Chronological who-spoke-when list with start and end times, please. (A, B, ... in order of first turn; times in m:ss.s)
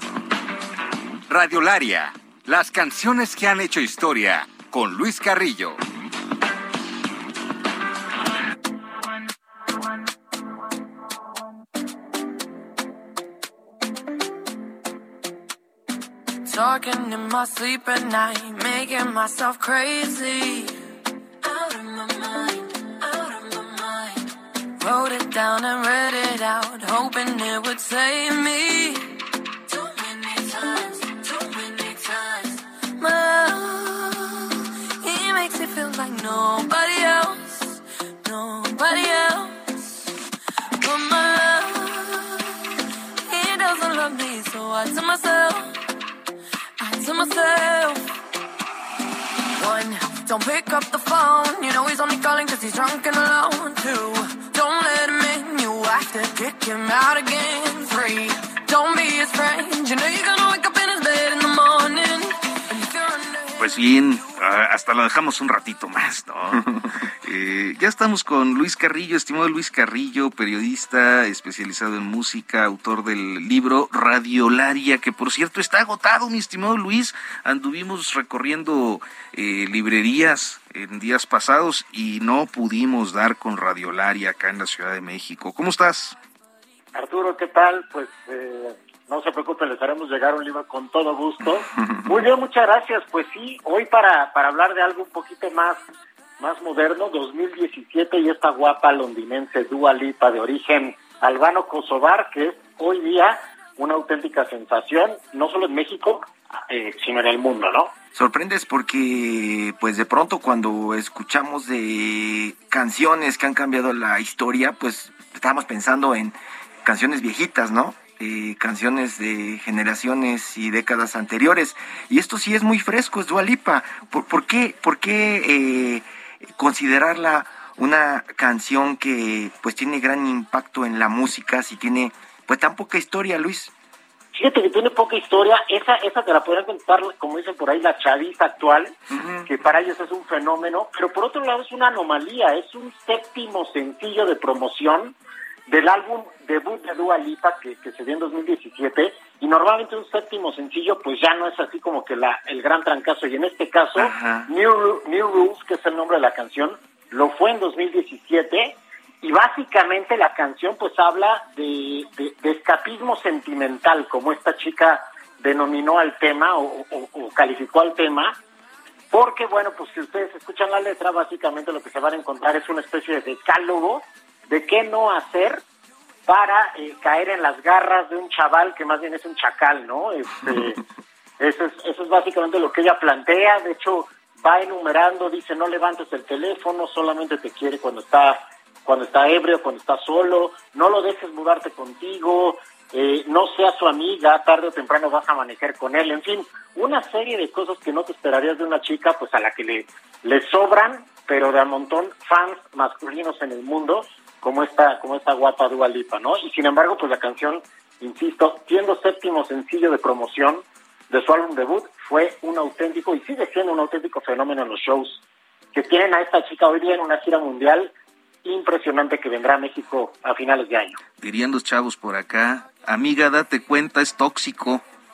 0:01.3-0:05.8 A
0:16.4-0:20.8 B
0:21.4-0:40.0 B
0:40.8-0:42.5 B
0:43.2-0:45.8 B
0:46.8-0:48.1 B
0:49.5-1:03.6 B
1:03.6-1:26.2 C
1:26.9-1:35.8 D
1:36.4-1:47.9 D
1:48.1-2:13.7 E
2:14.3-2:25.2 D
2:19.1-2:19.5 E
2:25.7-2:48.4 D
2:34.0-2:34.5 E
2:49.1-2:55.6 D
2:56.3-3:00.8 D
3:01.4-3:35.2 D
3:35.7-3:37.9 D
3:38.4-3:41.0 D
3:41.2-3:44.8 C